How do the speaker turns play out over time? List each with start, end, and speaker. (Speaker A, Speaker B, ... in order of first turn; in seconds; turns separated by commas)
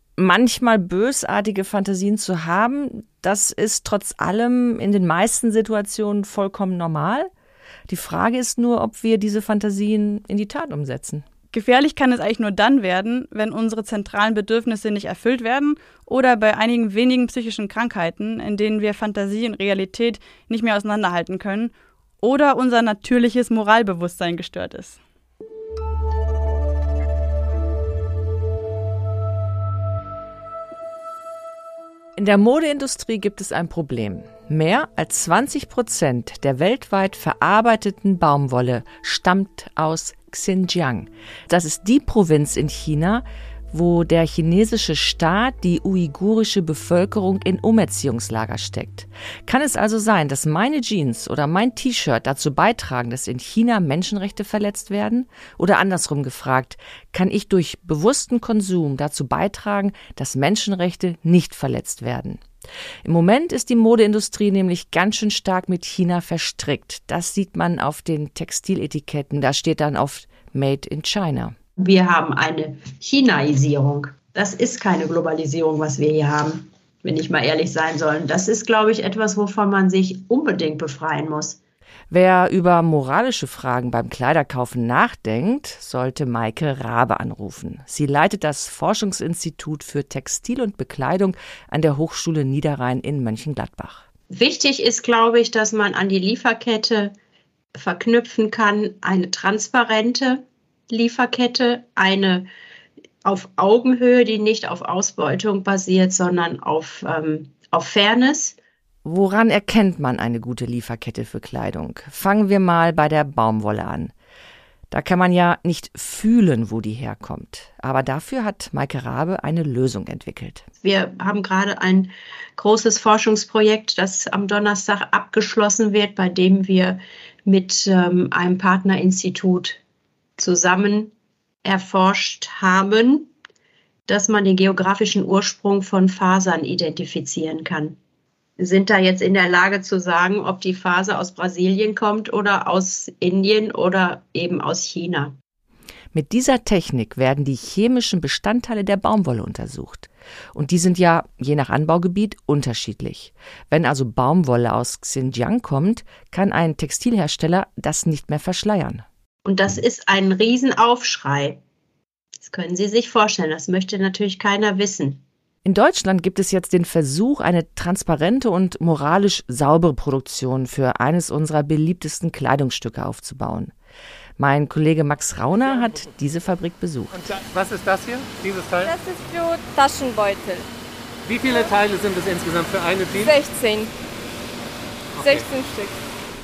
Speaker A: 0.2-7.3, Speaker A: 7.9-11.2, Speaker B: 11.5-25.0, Speaker A: 32.2-62.4, Speaker A: 63.0-71.5, Speaker C: 71.8-81.6, Speaker A: 82.1-94.0, Speaker C: 94.3-97.1, Speaker C: 97.8-102.5, Speaker C: 103.2-108.6, Speaker A: 109.0-114.1, Speaker A: 114.9-120.7, Speaker C: 120.8-129.8, Speaker C: 130.4-131.1, Speaker C: 131.6-133.3, Speaker C: 134.1-138.0, Speaker C: 138.6-145.4, Speaker A: 146.1-159.1, Speaker C: 159.4-161.6, Speaker C: 162.4-165.2, Speaker A: 165.7-173.7, Speaker A: 174.4-177.2, Speaker D: 177.2-178.9, Speaker E: 178.8-180.7, Speaker D: 181.2-183.3, Speaker E: 183.1-183.9, Speaker D: 185.2-185.5, Speaker E: 185.2-186.0